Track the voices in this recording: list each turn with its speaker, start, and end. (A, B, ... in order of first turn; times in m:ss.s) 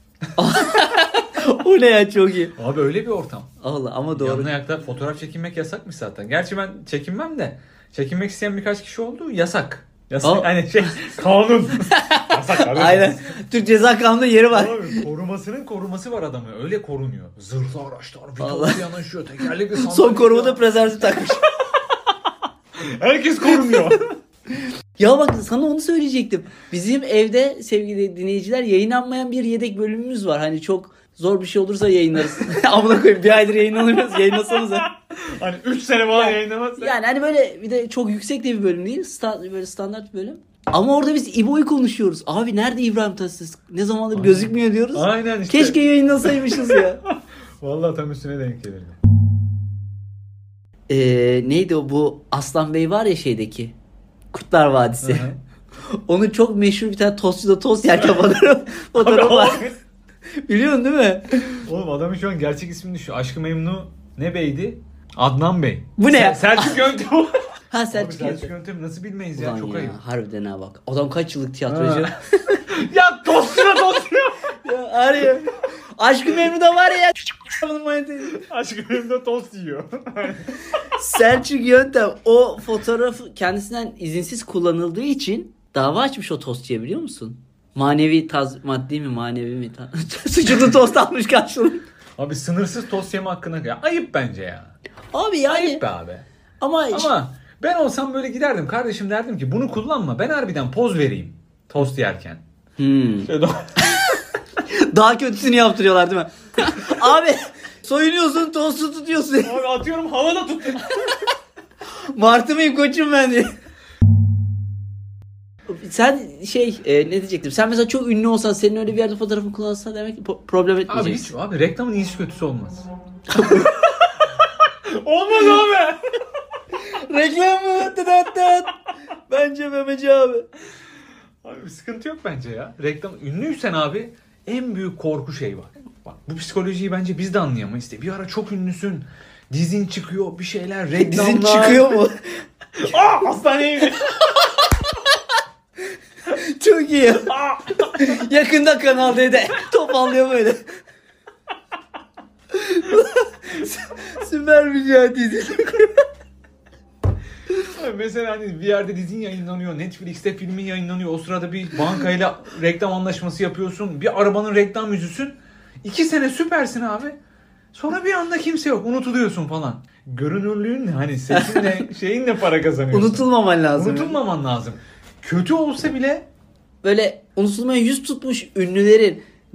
0:00.4-0:02.5 A
0:02.6-0:03.5 B
0:03.6-0:04.5 A
0:04.1-0:13.4 B
0:10.2-0:10.9 A
0:11.8-0:15.0 A
0:14.5-0:20.6 B
0:18.4-0:18.8 A
0:19.8-0:21.5 A
0:21.6-0:22.1 B
0:22.8-0:24.1 B
0:23.6-0:23.9 A
0:25.0-0:34.9 A
0:34.3-0:37.0 B
0:36.2-0:47.0 A
0:44.1-0:49.0 B
0:50.9-0:53.8 A
0:54.3-0:55.3 A
0:55.0-0:55.4 B
0:55.9-0:59.7 A
0:59.0-0:59.8 B
1:00.4-1:01.6 A
1:01.6-1:07.4 B
1:06.0-1:06.8 A
1:07.7-1:08.5 A
1:07.9-1:10.0 B
1:09.4-1:12.6 A
1:11.7-1:14.5 B
1:14.6-1:18.4 A
1:18.3-1:20.8 B
1:20.9-1:31.8 A
1:32.2-1:34.8 B
1:35.1-1:35.8 A
1:35.5-1:36.2 B
1:36.6-1:37.1 A
1:36.9-1:42.4 B
1:42.8-1:43.3 A
1:43.2-1:44.0 B
1:44.6-1:49.6 A
1:49.4-1:51.3 B
1:52.1-1:53.5 A
1:55.7-2:01.3 A
2:00.9-2:03.7 B
2:03.3-2:03.8 A
2:04.6-2:06.0 B
2:06.7-2:10.5 A
2:11.4-2:22.0 B
2:21.0-2:22.2 A
2:22.8-2:24.3 B
2:26.3-2:30.6 A
2:27.3-2:27.8 B
2:32.5-2:36.0 A
2:37.5-2:47.2 B
2:47.7-2:56.3 B
2:51.3-2:51.7 A
2:52.9-2:54.2 A
2:56.8-2:59.2 A